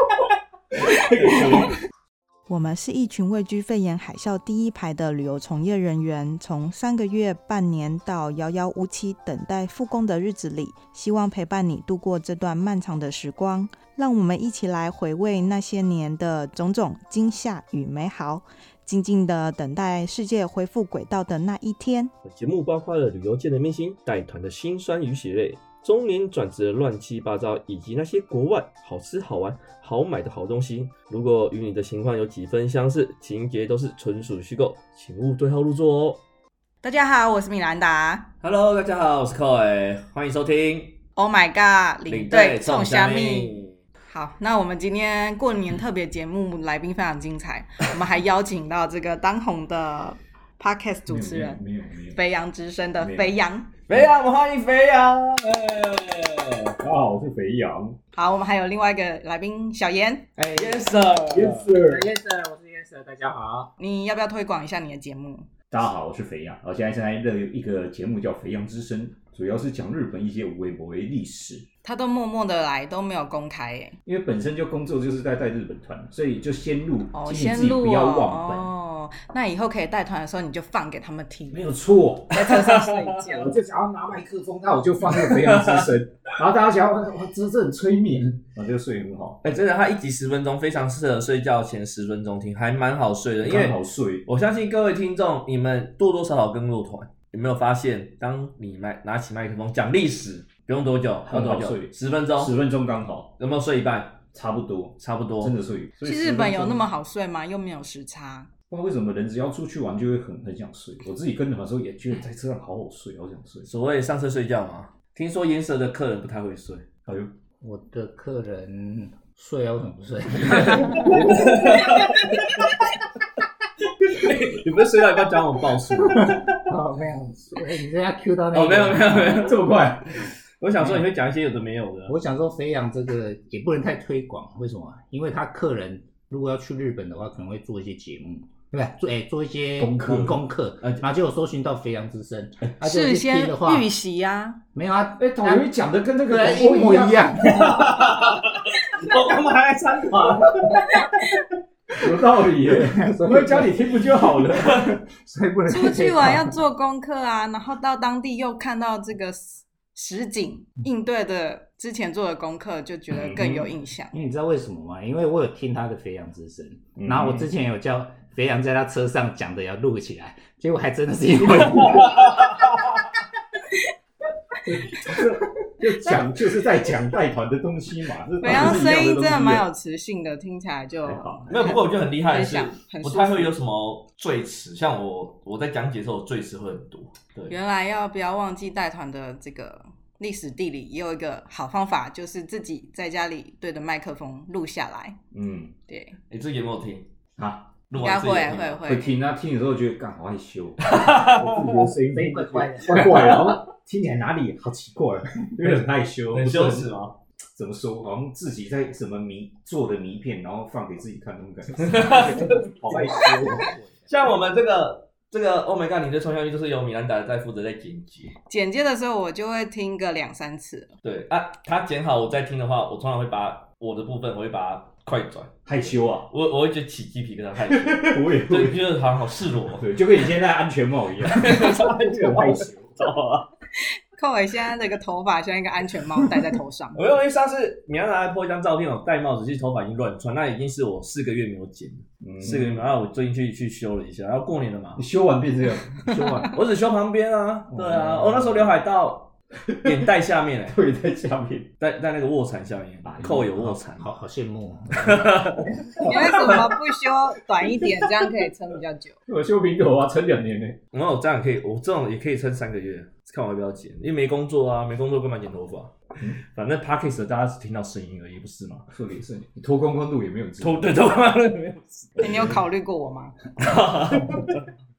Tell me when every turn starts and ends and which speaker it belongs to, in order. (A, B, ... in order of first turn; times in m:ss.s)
0:00.8-0:01.4 A
0:00.9-0:01.7 B
0:00.9-0:01.7 C
0:02.5-0:22.1 A
0:22.2-0:36.2 C
0:36.8-0:38.3 A
0:38.4-0:41.0 C
0:41.2-0:51.6 A
0:42.1-0:43.8 C
0:51.1-0:52.2 B
0:52.1-0:53.7 A
0:53.0-0:53.4 B
0:53.9-0:56.8 C
0:56.8-0:58.0 B
0:58.2-1:00.3 A
1:00.4-1:03.7 D
1:00.6-1:01.8 C
1:01.3-1:02.0 B
1:03.8-1:05.5 A
1:05.7-1:11.7 B
1:11.8-1:14.0 A
1:14.1-1:18.7 B
1:17.1-1:21.6 A
1:21.5-1:29.4 B
1:22.3-1:23.5 A
1:25.0-1:25.9 C
1:29.4-1:42.6 C
1:33.4-1:34.3 B
1:41.3-1:43.3 B
1:43.4-1:44.2 C
1:44.3-1:46.8 B
1:45.0-1:45.5 C
1:46.0-1:48.5 A
1:48.7-1:53.7 B
1:53.6-1:56.9 C
1:57.1-1:57.3 B
1:57.6-2:01.8 D
2:00.6-2:02.8 C
2:00.6-2:01.4 B
2:04.1-2:06.6 C
2:06.2-2:09.5 D
2:08.5-2:09.7 C
2:09.3-2:10.1 B
2:10.6-2:12.2 C
2:12.1-2:23.9 D
2:19.8-2:20.4 B
2:22.8-2:24.6 A
2:24.7-2:25.7 D
2:25.2-2:27.9 B
2:26.3-2:28.0 D
2:27.4-2:30.8 C
2:30.7-2:31.4 A
2:32.0-2:35.0 B
2:32.7-2:33.8 D
2:34.7-2:36.6 D
2:35.7-2:44.2 A
2:43.1-2:43.7 B
2:44.1-2:52.2 D
2:47.0-2:47.5 B
2:51.7-2:53.0 C
2:54.6-2:59.6 B
2:58.4-3:03.6 A
3:01.0-3:01.6 B
3:01.5-3:07.6 C
3:07.5-3:15.2 A
3:15.3-3:15.8 B
3:15.9-3:16.2 A
3:16.3-3:17.1 C
3:17.4-3:17.7 B
3:17.9-3:18.8 C
3:18.0-3:19.2 A
3:18.8-3:26.9 B
3:20.9-3:21.9 C
3:22.1-3:23.5 D
3:26.3-3:27.2 C
3:27.6-3:33.7 B
3:31.8-3:33.5 C
3:32.1-3:33.9 D
3:34.1-3:38.3 C
3:38.5-3:40.9 A
3:41.0-3:45.5 C
3:45.7-3:46.3 B
3:46.3-3:50.0 C
3:47.6-3:49.0 B
3:49.7-3:53.1 B
3:51.2-3:53.5 C
3:54.2-3:57.0 A
3:57.0-4:05.0 C
4:02.2-4:02.9 B
4:05.0-4:06.2 B
4:06.0-4:06.5 A
4:06.1-4:06.5 D
4:06.5-4:10.8 C
4:07.7-4:08.8 B
4:09.7-4:10.1 B
4:10.7-4:11.7 B
4:11.8-4:14.1 C
4:13.0-4:13.8 B
4:13.9-4:15.4 D
4:14.9-4:16.6 C
4:15.6-4:16.7 B
4:16.0-4:19.2 A
4:19.3-4:20.8 B
4:20.9-4:28.9 C
4:28.9-4:31.0 B
4:30.6-4:32.6 C
4:32.2-4:32.6 B
4:32.2-4:33.3 A
4:33.6-4:34.7 C